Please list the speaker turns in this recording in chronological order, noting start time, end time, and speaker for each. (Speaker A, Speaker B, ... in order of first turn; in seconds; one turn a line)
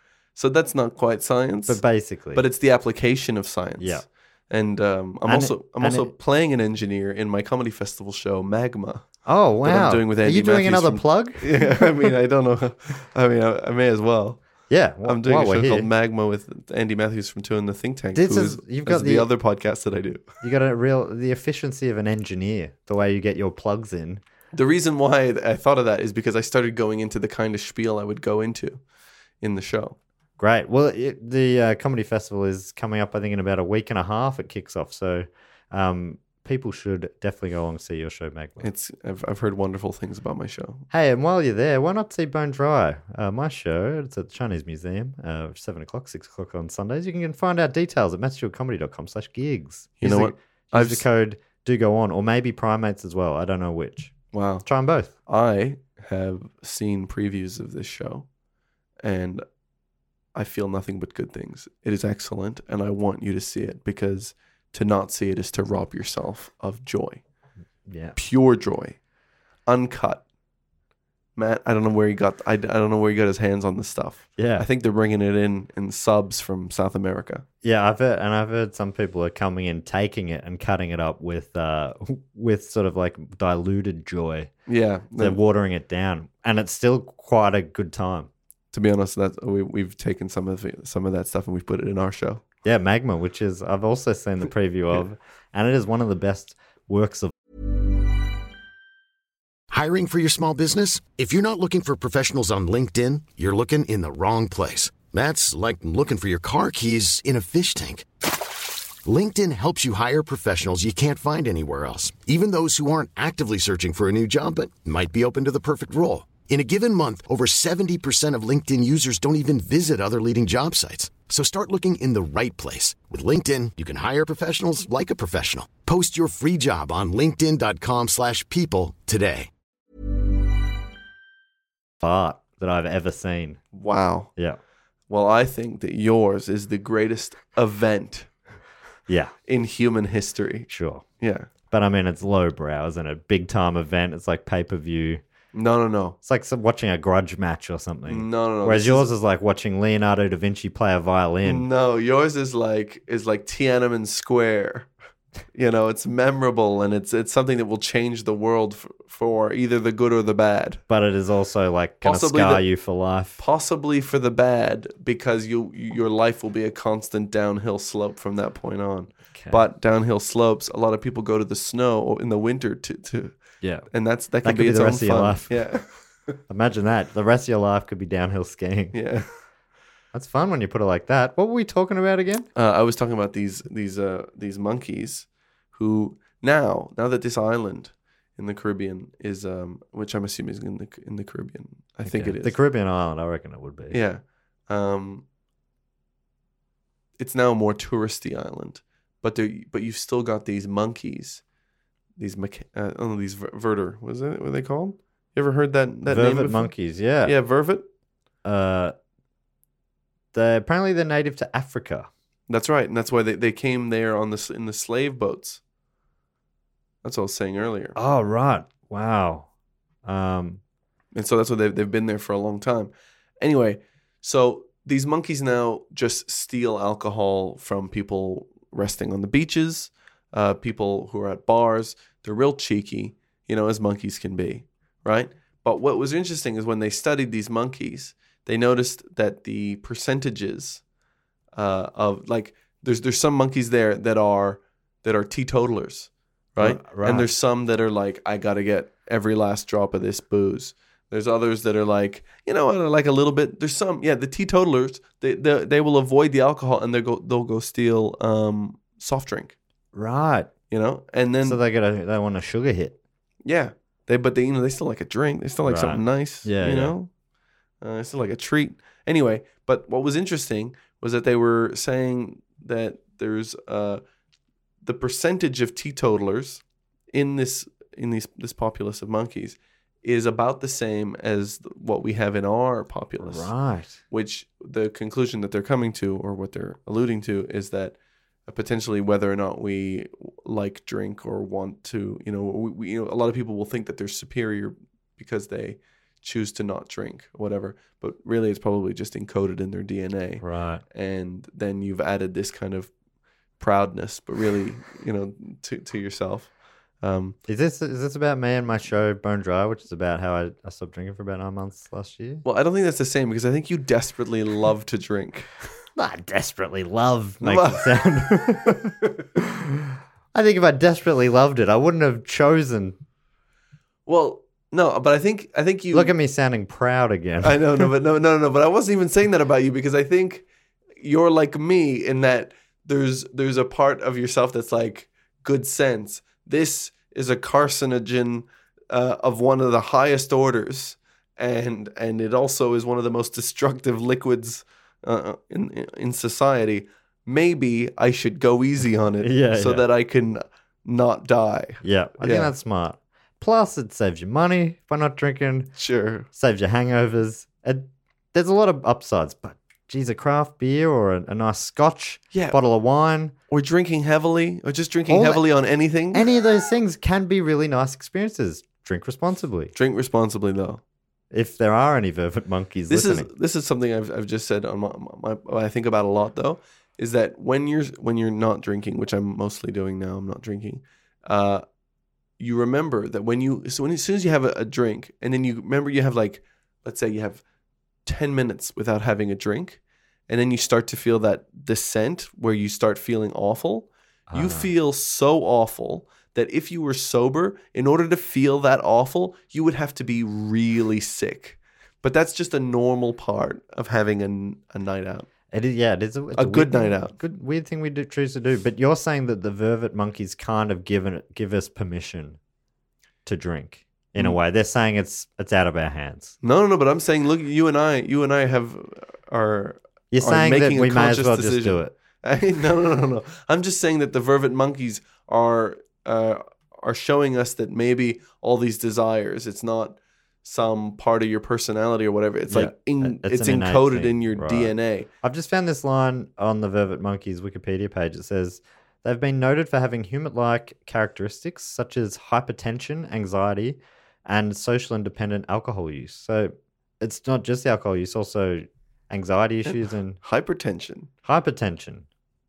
Speaker A: 0.4-9.1
Speaker B: 1.7-2.4
Speaker B: 5.2-6.1
Speaker B: 9.3-12.1
Speaker A: 9.6-14.4
Speaker B: 14.7-15.9
Speaker A: 15.1-20.2
Speaker B: 18.1-19.3
Speaker B: 20.4-24.2
Speaker A: 24.5-28.8
Speaker A: 29.4-30.0
Speaker B: 30.4-38.7
Speaker A: 38.6-40.9
Speaker B: 40.9-55.1
Speaker A: 50.0-51.0
Speaker A: 54.3-54.6
Speaker A: 55.3-58.3
Speaker A: 59.0-59.4
Speaker A: 60.4-67.2
Speaker B: 67.9-68.2
Speaker A: 68.2-69.0
Speaker A: 69.7-70.2
Speaker A: 71.4-77.5
Speaker B: 74.4-74.7
Speaker B: 77.6-84.5
Speaker A: 84.7-85.4
Speaker B: 85.2-88.3
Speaker A: 88.7-92.4
Speaker B: 92.7-97.3
Speaker C: 99.7-108.1
Speaker C: 109.0-129.5
Speaker B: 132.0-133.6
Speaker A: 133.7-134.3
Speaker A: 135.1-138.3
Speaker B: 139.1-139.3
Speaker A: 139.5-140.7
Speaker B: 140.7-141.1
Speaker A: 141.2-141.5
Speaker B: 141.7-145.2
Speaker A: 145.5-146.2
Speaker B: 146.2-151.7
Speaker A: 148.1-149.1
Speaker A: 151.4-154.9
Speaker A: 155.6-160.8
Speaker B: 160.9-163.4
Speaker A: 162.0-162.6
Speaker A: 163.4-173.4
Speaker B: 169.4-169.7
Speaker A: 173.9-176.4
Speaker B: 174.4-175.7
Speaker B: 176.5-179.0
Speaker A: 178.9-179.3
Speaker B: 180.1-182.5
Speaker A: 182.6-192.6
Speaker B: 192.0-194.0
Speaker A: 193.9-195.2
Speaker A: 197.2-201.4
Speaker A: 202.2-207.8
Speaker B: 206.1-207.3
Speaker B: 208.4-208.9
Speaker B: 210.3-212.1
Speaker A: 212.5-215.6
Speaker A: 217.0-218.0
Speaker B: 217.9-219.5
Speaker B: 220.1-220.6
Speaker A: 221.1-240.8
Speaker A: 241.6-259.6
Speaker B: 246.6-247.3
Speaker B: 259.9-260.5
Speaker A: 260.7-261.6
Speaker B: 261.4-263.0
Speaker A: 263.4-267.1
Speaker B: 265.7-267.0
Speaker A: 267.8-274.0
Speaker A: 274.8-283.5
Speaker B: 283.2-284.0
Speaker A: 284.1-288.0
Speaker A: 288.5-302.9
Speaker B: 300.4-300.8
Speaker A: 303.6-307.4
Speaker B: 307.5-312.4
Speaker A: 312.4-315.7
Speaker B: 316.0-323.0
Speaker A: 317.4-319.1
Speaker A: 324.1-326.1
Speaker B: 325.9-327.9
Speaker A: 327.4-330.4
Speaker A: 331.0-352.5
Speaker B: 349.2-349.8
Speaker B: 351.8-355.7
Speaker A: 355.8-356.3
Speaker B: 356.3-363.3
Speaker A: 362.3-362.6
Speaker A: 363.5-366.3
Speaker B: 365.1-365.4
Speaker B: 366.1-369.7
Speaker A: 369.8-370.8
Speaker B: 371.3-373.3
Speaker A: 372.9-381.6
Speaker A: 382.4-387.4
Speaker A: 388.1-405.3
Speaker B: 394.3-394.7
Speaker B: 405.5-412.4
Speaker A: 406.4-407.2
Speaker B: 413.3-416.3
Speaker A: 416.4-435.1
Speaker B: 420.1-421.9
Speaker B: 432.5-450.2
Speaker A: 449.7-451.1
Speaker B: 451.2-452.1